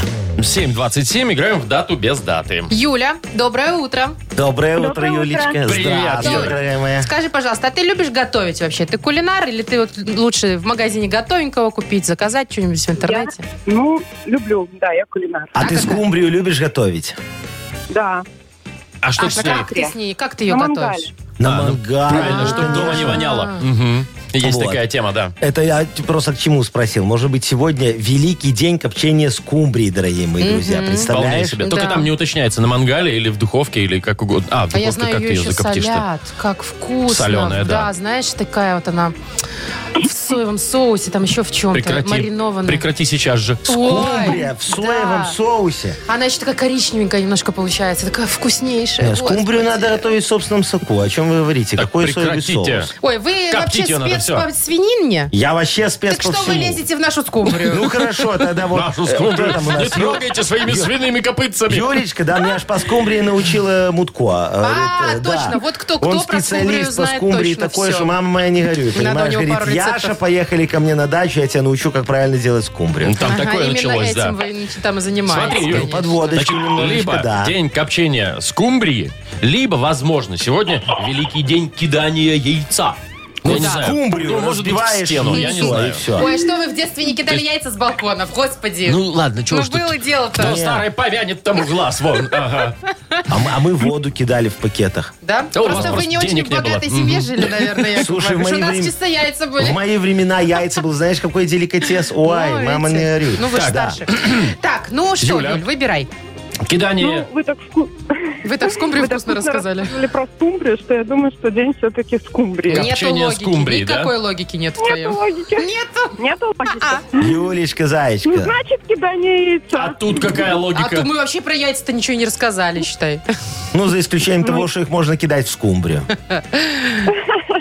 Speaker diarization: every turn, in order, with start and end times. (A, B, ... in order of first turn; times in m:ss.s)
0:00.4-0:02.7 A
0:02.7-0:04.2 B
0:04.3-0:07.1 C
0:04.8-0:05.6 D
0:05.6-0:06.6 A
0:06.2-0:13.4 B
0:13.0-0:15.6 D
0:15.5-0:17.2 C
0:15.6-0:16.0 B
0:17.9-0:18.2 D
0:19.0-0:19.7 A
0:19.2-0:21.1 B
0:19.3-0:20.0 D
0:20.5-0:21.1 D
0:21.4-0:23.2 C
0:21.4-0:25.3 A
0:22.1-0:23.6 B
0:24.4-0:24.8 C
0:25.4-0:31.6 C
0:30.4-0:31.1 B
0:31.1-0:36.0 A
0:31.6-0:32.1 B
0:34.7-0:39.2 B
0:37.1-0:37.9 A
0:40.0-0:42.8 B
0:41.7-0:44.1 A
0:43.7-0:45.4 B
0:43.8-0:46.0 C
0:46.1-0:50.0 B
0:49.0-0:52.9 C
0:51.8-0:52.9 A
0:53.0-0:55.3 B
0:53.5-0:54.5 A
0:55.3-0:56.8 C
0:56.1-0:57.8 B
0:57.6-1:00.9 C
0:58.7-1:01.9 A
1:01.7-1:13.2 C
1:04.6-1:08.1 B
1:08.9-1:10.2 B
1:13.0-1:14.4 A
1:13.2-1:16.4 B
1:15.3-1:26.1 A
1:15.5-1:17.6 C
1:23.4-1:26.3 C
1:23.4-1:23.8 B
1:25.3-1:30.5 B
1:28.8-1:32.8 A
1:30.4-1:30.8 C
1:33.3-1:35.1 C
1:35.2-1:39.8 B
1:35.5-1:37.9 A
1:35.7-1:36.0 C
1:38.0-1:38.9 C
1:39.6-1:44.0 C
1:42.2-1:46.1 B
1:43.5-1:44.5 A
1:45.2-1:45.6 A
1:46.7-1:47.3 A
1:47.0-1:52.9 D
1:48.4-1:50.0 B
1:52.7-1:54.1 A
1:52.7-1:56.1 B
1:54.8-1:57.4 D
1:56.7-1:57.0 B
1:57.2-1:58.5 C
1:58.2-2:00.4 D
1:59.7-2:01.1 A
2:00.7-2:03.2 B
2:03.7-2:06.1 C
2:06.4-2:07.1 B